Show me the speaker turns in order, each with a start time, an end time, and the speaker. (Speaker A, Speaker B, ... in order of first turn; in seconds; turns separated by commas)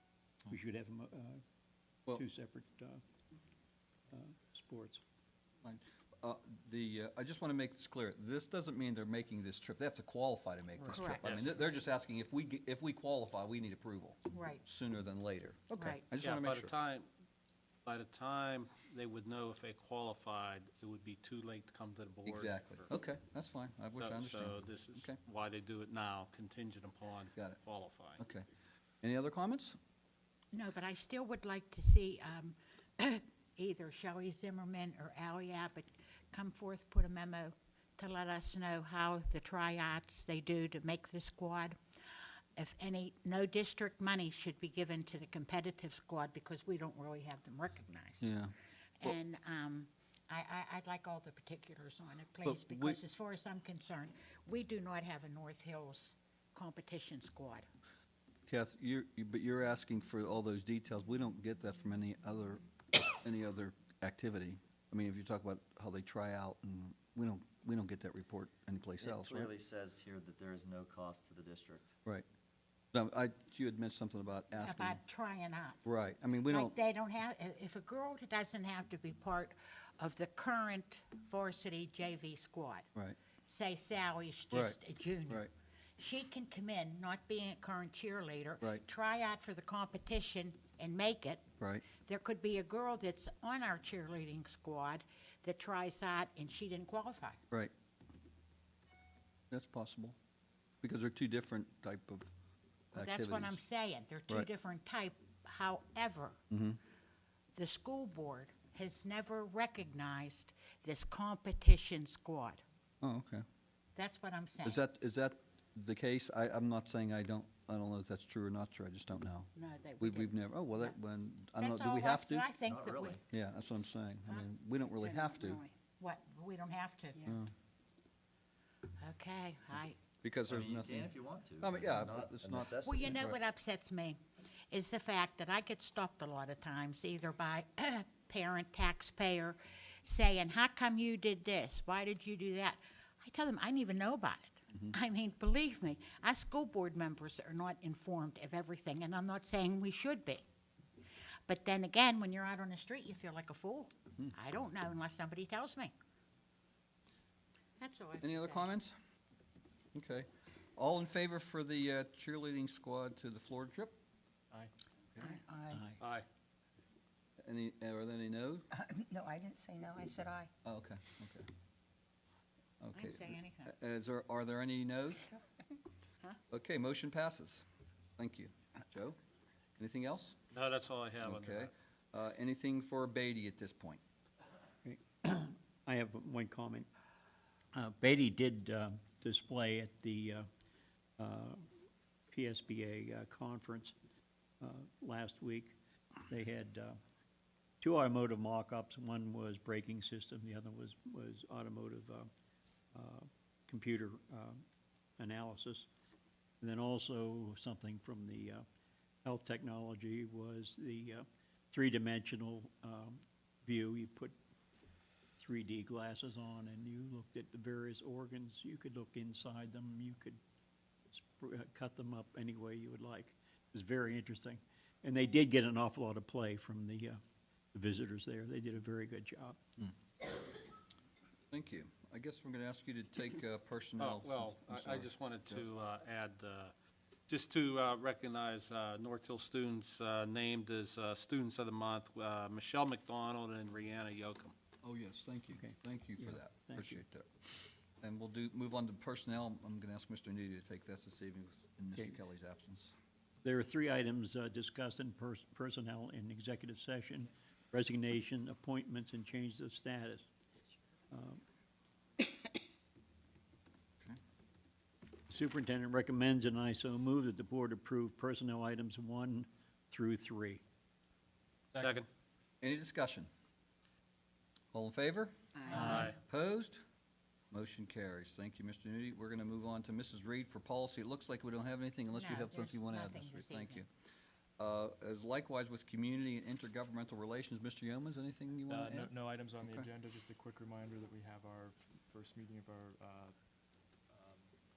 Speaker A: 0.5-1.4, Speaker A: 2.1-3.0, Speaker A: 4.1-5.0, Speaker B: 5.6-16.7, Speaker A: 10.8-11.2, Speaker C: 10.9-11.3, Speaker D: 11.2-11.5, Speaker C: 14.3-14.6, Speaker C: 15.7-16.1, Speaker D: 16.2-17.1, Speaker D: 17.9-22.9, Speaker B: 22.3-25.2, Speaker D: 24.0-28.2, Speaker B: 27.4-27.6, Speaker B: 28.2-28.5, Speaker B: 29.0-29.8, Speaker C: 30.5-48.3, Speaker B: 48.2-49.2, Speaker C: 49.0-57.7, Speaker B: 52.5-53.0, Speaker B: 58.5-69.5, Speaker E: 69.0-71.9, Speaker B: 72.9-75.0, Speaker C: 74.6-75.8, Speaker B: 75.8-76.8, Speaker C: 76.5-82.9, Speaker C: 83.5-97.4, Speaker B: 84.5-84.8, Speaker B: 99.5-100.2, Speaker B: 100.8-102.3, Speaker B: 102.9-103.6, Speaker C: 103.0-106.4, Speaker B: 106.5-106.8, Speaker C: 107.5-112.6, Speaker B: 113.0-113.5, Speaker C: 114.0-114.8, Speaker B: 114.6-122.5, Speaker C: 119.5-121.0, Speaker C: 121.6-123.2, Speaker E: 122.6-123.2, Speaker B: 123.3-125.6, Speaker F: 125.1-125.7, Speaker C: 126.0-127.4, Speaker B: 127.3-127.5, Speaker C: 129.0-130.0, Speaker B: 130.2-133.3, Speaker E: 130.5-133.3, Speaker C: 132.8-150.5, Speaker C: 151.5-155.9, Speaker C: 157.8-158.7, Speaker B: 158.2-158.9, Speaker B: 159.9-164.0, Speaker F: 165.2-165.8, Speaker A: 165.7-166.0, Speaker D: 166.0-166.3, Speaker B: 167.4-168.7, Speaker F: 168.7-170.5, Speaker B: 170.6-171.5, Speaker B: 172.8-175.3, Speaker C: 172.9-173.8, Speaker B: 176.5-177.6, Speaker B: 178.2-179.2, Speaker B: 179.8-180.4, Speaker D: 180.5-181.7, Speaker B: 181.2-184.0, Speaker A: 184.8-186.9, Speaker A: 187.7-190.5, Speaker A: 191.2-191.7, Speaker A: 192.3-193.9, Speaker A: 194.6-195.8, Speaker A: 196.3-197.0, Speaker A: 197.8-202.3, Speaker A: 202.9-204.6, Speaker A: 205.2-205.9, Speaker A: 206.6-208.6, Speaker A: 209.2-214.4, Speaker A: 215.4-220.4, Speaker A: 221.1-227.2, Speaker A: 227.7-229.7, Speaker B: 231.5-235.6, Speaker D: 234.0-236.7, Speaker D: 237.3-244.5, Speaker B: 244.8-247.3, Speaker A: 245.6-247.0, Speaker B: 248.0-252.9, Speaker A: 253.4-260.3, Speaker A: 261.1-261.4, Speaker A: 265.3-270.6, Speaker D: 271.7-272.1, Speaker B: 272.6-273.3, Speaker B: 274.7-276.8, Speaker A: 275.8-276.1, Speaker D: 275.8-276.2, Speaker B: 277.5-283.9, Speaker C: 282.1-283.8, Speaker B: 284.6-289.9, Speaker G: 288.7-293.3, Speaker G: 294.1-294.4